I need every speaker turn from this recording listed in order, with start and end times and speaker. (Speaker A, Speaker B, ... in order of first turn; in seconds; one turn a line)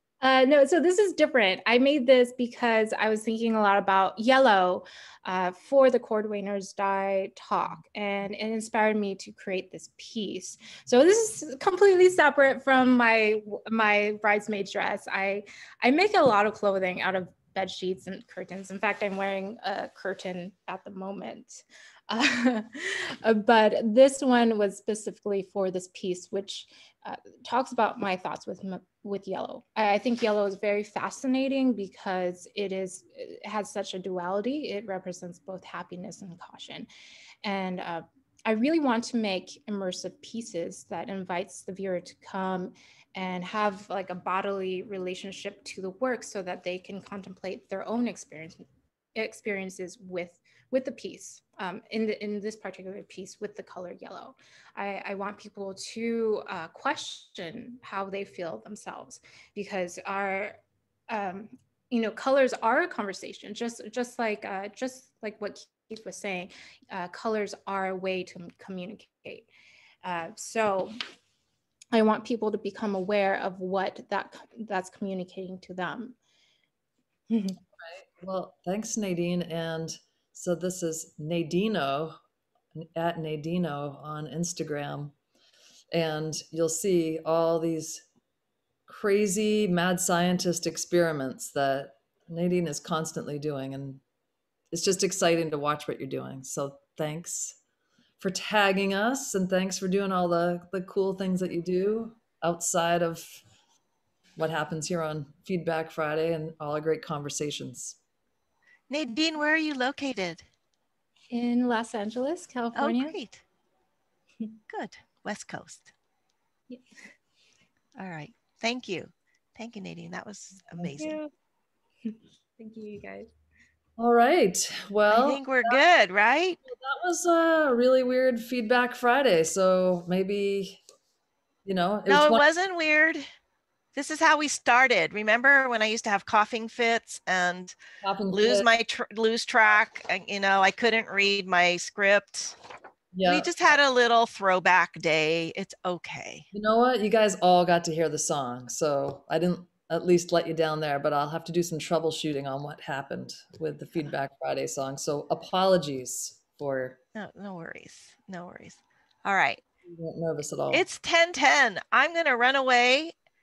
Speaker A: 0.2-36.9
Speaker A: 37.4-69.5
Speaker A: 70.0-71.0
Speaker A: 71.9-76.2
Speaker A: 77.3-77.6
Speaker B: 77.8-82.2
Speaker B: 82.8-85.1
Speaker B: 85.9-88.0
Speaker B: 88.9-94.0
Speaker B: 94.7-97.6
Speaker B: 98.2-103.4
Speaker B: 104.4-108.0
Speaker C: 108.9-110.5
Speaker A: 111.3-113.2
Speaker C: 112.8-113.4
Speaker C: 114.7-115.9
Speaker C: 118.0-121.2
Speaker A: 120.8-121.3
Speaker A: 122.1-123.3
Speaker B: 124.0-125.8
Speaker C: 125.1-126.6
Speaker B: 126.7-130.8
Speaker B: 131.7-132.4
Speaker C: 132.1-133.2
Speaker C: 133.9-137.8
Speaker B: 138.0-138.7
Speaker C: 138.3-142.6
Speaker B: 143.1-143.5
Speaker C: 143.3-146.5
Speaker B: 146.5-157.0
Speaker C: 157.2-159.6
Speaker B: 159.9-160.8
Speaker C: 160.7-163.1